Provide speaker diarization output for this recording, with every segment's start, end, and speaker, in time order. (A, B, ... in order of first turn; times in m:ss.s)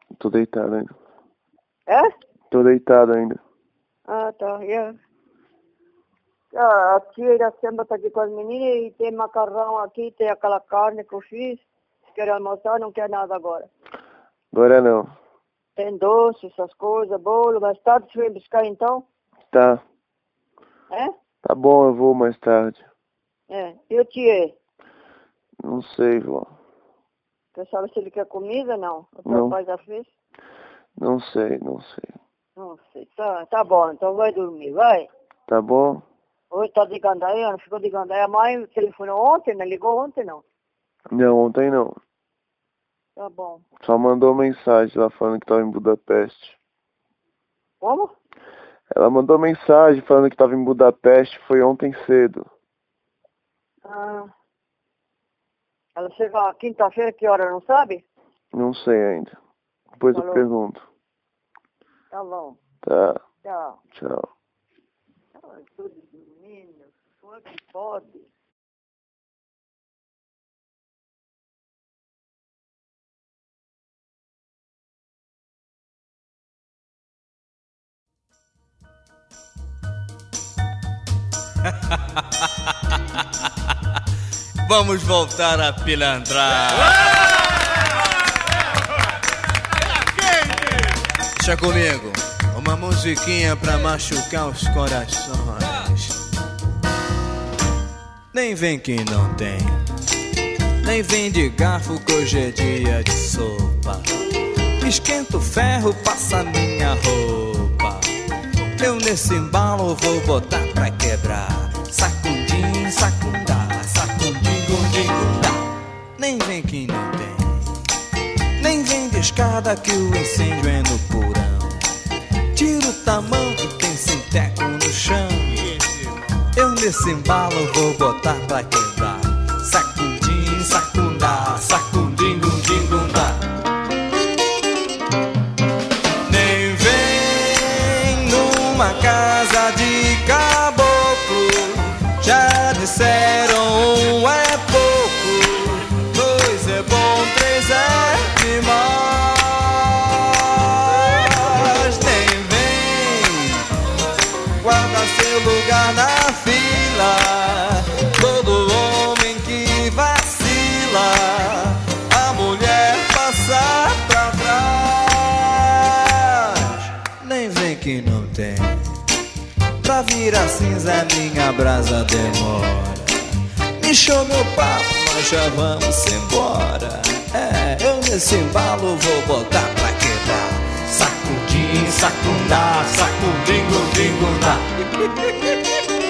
0:00.2-0:00.9 A
0:01.9-0:02.1 B
0:02.5-0:03.4 A
0:04.1-0:05.0 B
0:06.5-0:13.7 B
0:14.5-0:15.1 A
0:15.8-0:19.1 B
0:19.5-0:19.8 A
0:21.4-0:22.8 A
0:23.5-0:24.6 B
0:25.6-0:26.5 A
0:27.6-0:30.1 B
0:29.3-0:29.6 A
0:31.0-0:32.1 A
0:32.6-0:35.1 B
0:35.5-0:36.0 A
0:36.5-0:40.4 B
0:41.1-0:42.0 A
0:43.2-0:43.6 B
0:43.8-0:46.6 A
0:47.8-0:48.1 B
0:48.9-0:52.5 A
0:53.8-0:54.3 B
0:56.0-0:58.0 B
0:58.5-0:59.4 A
1:00.0-1:00.8 A
1:00.1-1:00.4 B
1:02.1-1:02.6 B
1:02.8-1:03.3 A
1:03.4-1:03.8 B
1:03.9-1:04.3 A
1:05.3-1:08.3 B
1:24.6-1:27.2 C
1:31.4-1:36.2 C
1:38.3-1:39.8 C
1:40.8-1:44.0 C
1:44.8-1:48.1 C
1:48.8-1:55.7 C
1:56.2-1:57.8 C
1:58.6-2:01.9 C
2:02.5-2:05.8 C
2:06.5-2:13.4 C
2:16.3-2:33.6 C
2:34.6-2:49.0 C
2:49.8-3:05.3 C